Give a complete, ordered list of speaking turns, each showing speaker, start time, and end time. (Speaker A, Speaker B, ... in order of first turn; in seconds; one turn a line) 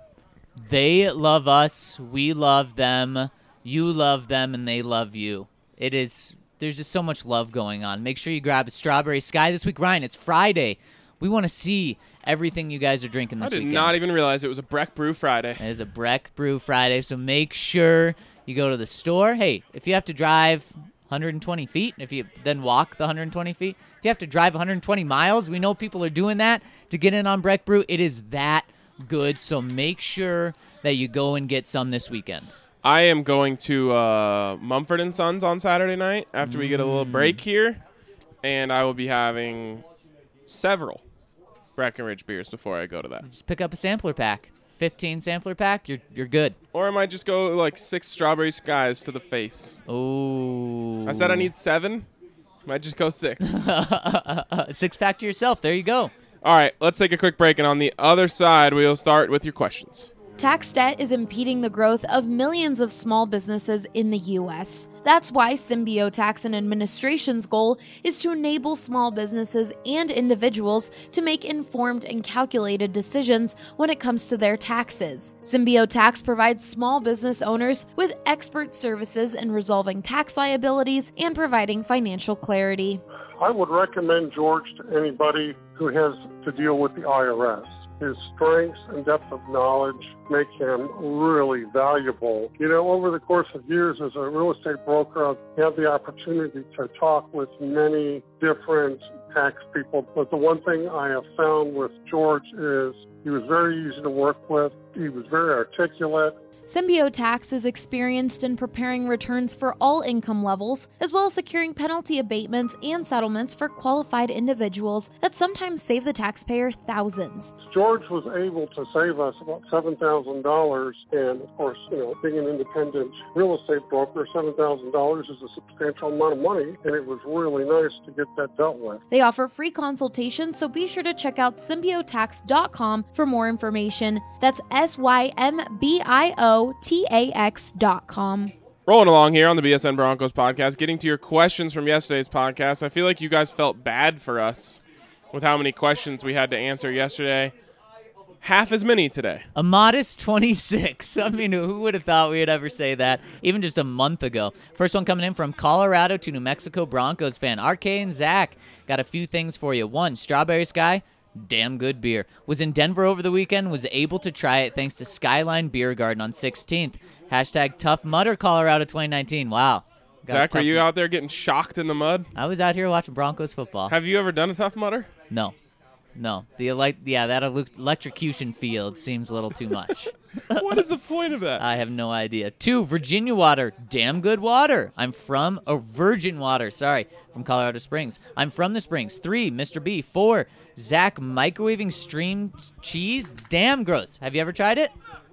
Speaker A: 0.6-14.0
Speaker B: 13.4-15.6
Speaker A: 15.6-32.5
Speaker B: 32.8-37.8
Speaker A: 36.4-37.4
Speaker B: 38.4-39.9
Speaker B: 40.5-41.0
Speaker B: 41.8-43.2
Speaker A: 43.2-46.6
Speaker B: 46.7-49.8
Speaker A: 49.9-51.5
Speaker B: 51.1-52.1
Speaker B: 52.7-53.7
Speaker A: 53.4-56.1
Speaker B: 56.4-60.1
Speaker C: 60.4-83.0
Speaker D: 83.4-106.4
Speaker C: 106.7-117.5
Speaker D: 117.6-129.0
Speaker C: 129.1-138.5
Speaker B: 138.9-147.5
Speaker B: 148.4-149.5
Speaker A: 149.6-170.9
Speaker B: 170.3-172.3
Speaker A: 172.4-173.9
Speaker B: 173.9-175.1
Speaker A: 176.2-180.6
Speaker B: 180.5-181.6
Speaker A: 181.6-194.9